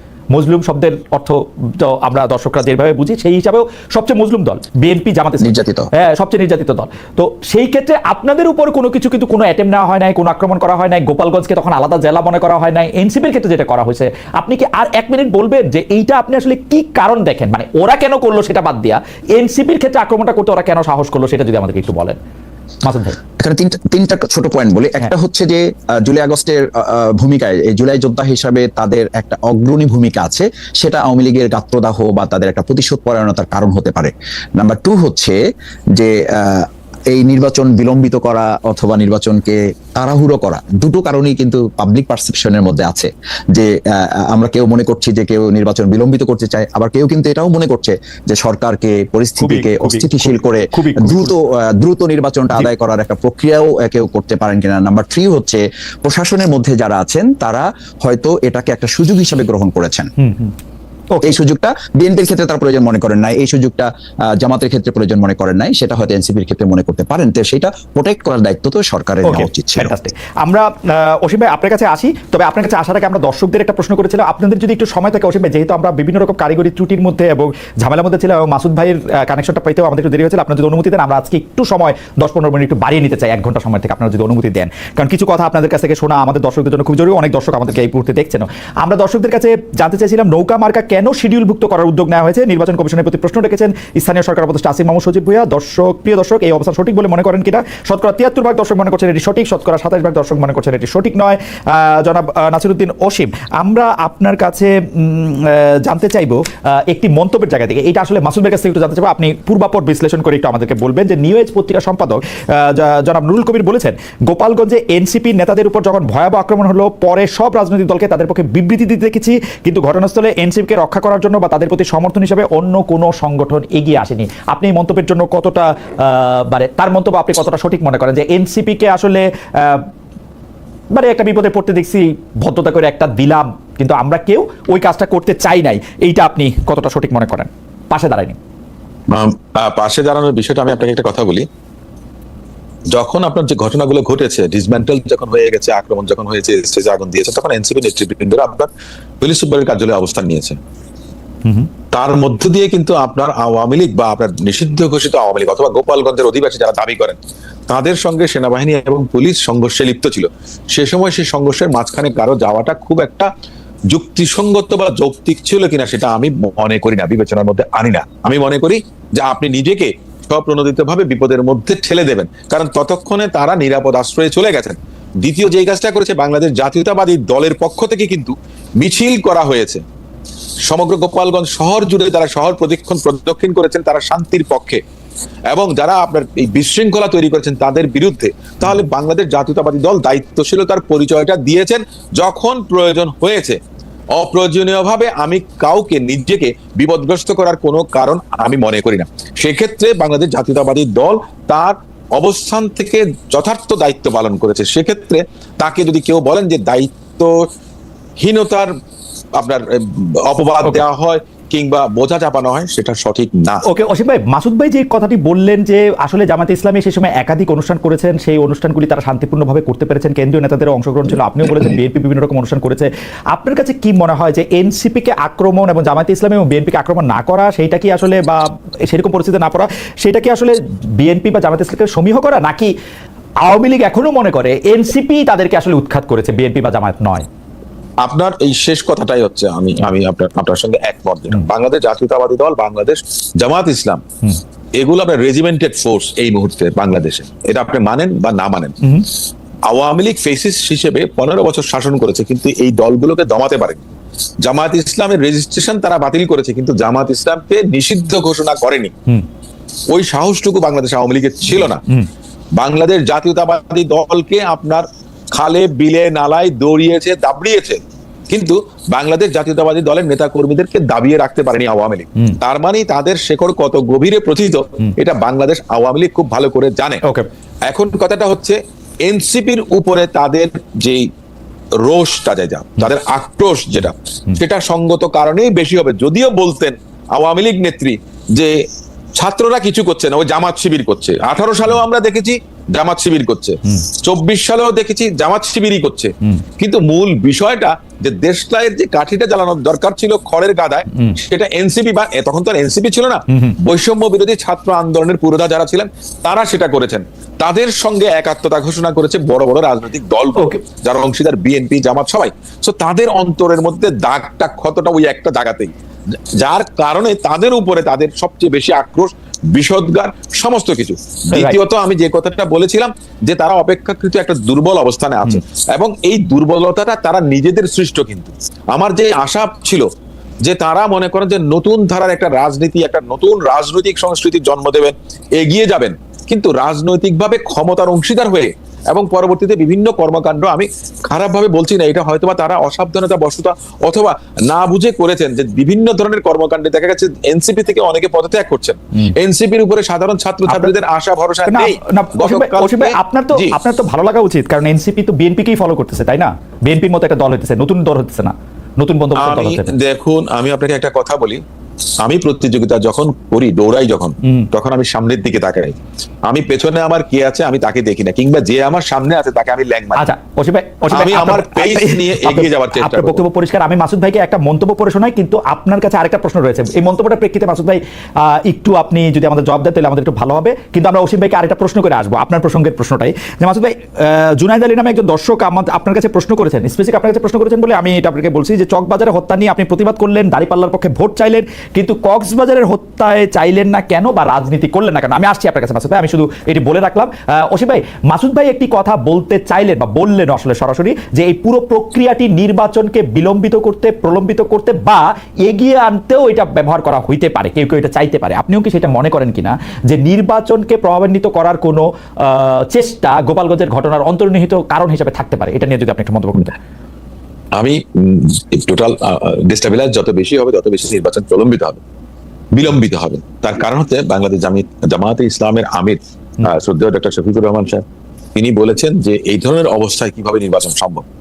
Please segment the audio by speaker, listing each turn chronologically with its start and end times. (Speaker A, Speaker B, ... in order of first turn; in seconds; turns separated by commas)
Speaker A: 0.3-22.2, Speaker B: 5.4-5.9, Speaker A: 22.8-23.2, Speaker B: 23.4-35.4, Speaker B: 36.0-60.1, Speaker A: 49.4-51.3, Speaker A: 60.2-60.5, Speaker B: 61.2-69.9, Speaker A: 69.2-129.9, Speaker A: 130.9-138.4, Speaker C: 139.1-141.5, Speaker C: 142.9-148.7, Speaker C: 149.2-150.6, Speaker A: 151.4-151.7, Speaker C: 151.9-157.2, Speaker C: 157.7-163.3, Speaker C: 163.9-179.8, Speaker C: 180.7-184.8, Speaker C: 185.5-193.6, Speaker C: 194.2-207.5, Speaker C: 208.2-208.7, Speaker C: 209.4-213.6, Speaker A: 213.7-232.7, Speaker A: 233.4-237.3, Speaker C: 238.0-244.0, Speaker C: 244.8-248.9, Speaker A: 248.8-249.1, Speaker C: 249.7-253.9, Speaker C: 254.4-258.9, Speaker C: 259.9-261.8, Speaker C: 262.6-277.0, Speaker C: 277.7-281.1, Speaker C: 281.8-288.6, Speaker C: 289.2-315.7, Speaker A: 300.9-301.2, Speaker A: 303.3-303.6, Speaker A: 310.4-310.6, Speaker C: 316.4-329.9, Speaker A: 321.3-321.6, Speaker C: 330.4-353.6, Speaker A: 350.5-350.7, Speaker A: 351.5-359.7, Speaker C: 359.2-361.4, Speaker C: 362.0-370.1, Speaker A: 364.2-364.5, Speaker A: 370.0-416.6, Speaker C: 370.9-373.2, Speaker C: 417.6-421.8, Speaker C: 422.5-427.8, Speaker C: 428.4-431.1